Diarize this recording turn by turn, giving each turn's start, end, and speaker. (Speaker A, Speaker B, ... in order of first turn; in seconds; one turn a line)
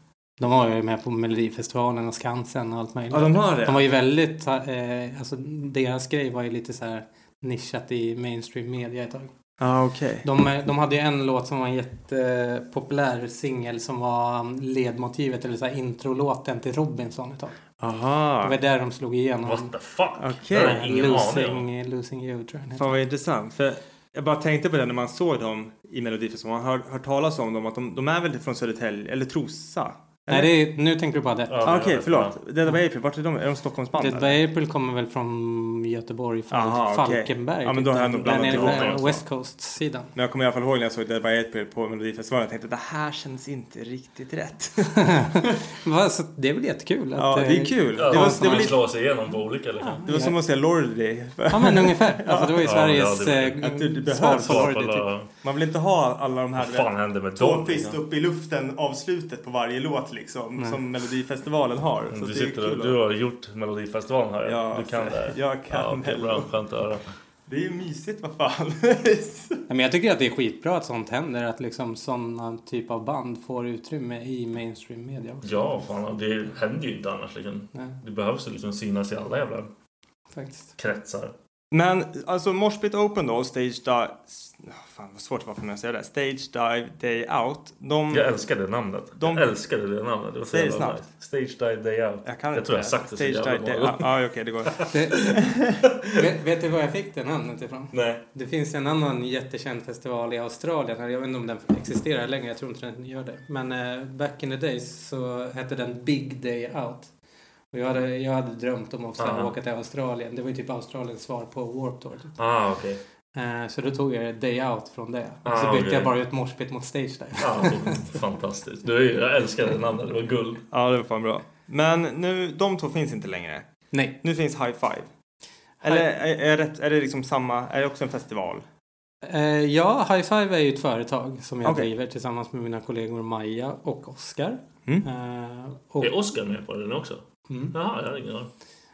Speaker A: 0.4-9.3
Speaker B: 3.1-3.8
Speaker B: 9.6-10.2
Speaker A: 10.2-17.6
Speaker B: 17.8-18.6
Speaker A: 18.4-19.7
Speaker C: 19.4-21.6
Speaker B: 20.2-20.8
Speaker A: 20.5-22.9
Speaker B: 22.8-30.5
Speaker A: 30.3-31.8
Speaker C: 31.5-32.4
Speaker B: 31.6-34.4
Speaker A: 33.9-40.1
Speaker B: 36.5-39.2
Speaker C: 38.3-39.1
Speaker B: 40.1-45.3
Speaker A: 45.0-48.8
Speaker B: 47.2-48.8
Speaker C: 48.0-50.0
Speaker A: 49.8-50.4
Speaker B: 50.0-52.6
Speaker A: 51.5-55.1
Speaker C: 52.6-53.6
Speaker B: 53.6-54.7
Speaker C: 54.2-55.3
Speaker B: 55.4-63.0
Speaker C: 56.5-58.0
Speaker C: 62.1-67.0
Speaker B: 64.4-66.5
Speaker B: 67.5-69.6
Speaker A: 69.7-75.7
Speaker C: 75.4-79.7
Speaker A: 80.3-80.7
Speaker C: 80.8-81.3
Speaker B: 81.7-88.3
Speaker C: 88.1-94.1
Speaker B: 89.2-89.4
Speaker B: 90.5-91.0
Speaker B: 92.2-95.7
Speaker A: 94.9-95.5
Speaker A: 96.1-107.1
Speaker C: 97.9-98.2
Speaker A: 107.7-112.4
Speaker C: 109.2-109.5
Speaker C: 112.4-113.0
Speaker A: 113.3-118.0
Speaker C: 115.4-116.1
Speaker C: 117.4-120.6
Speaker B: 120.7-123.7
Speaker A: 123.9-124.2
Speaker B: 124.2-125.1
Speaker B: 125.8-128.6
Speaker A: 129.2-136.1
Speaker B: 131.6-131.9
Speaker C: 136.0-138.5
Speaker A: 137.5-137.7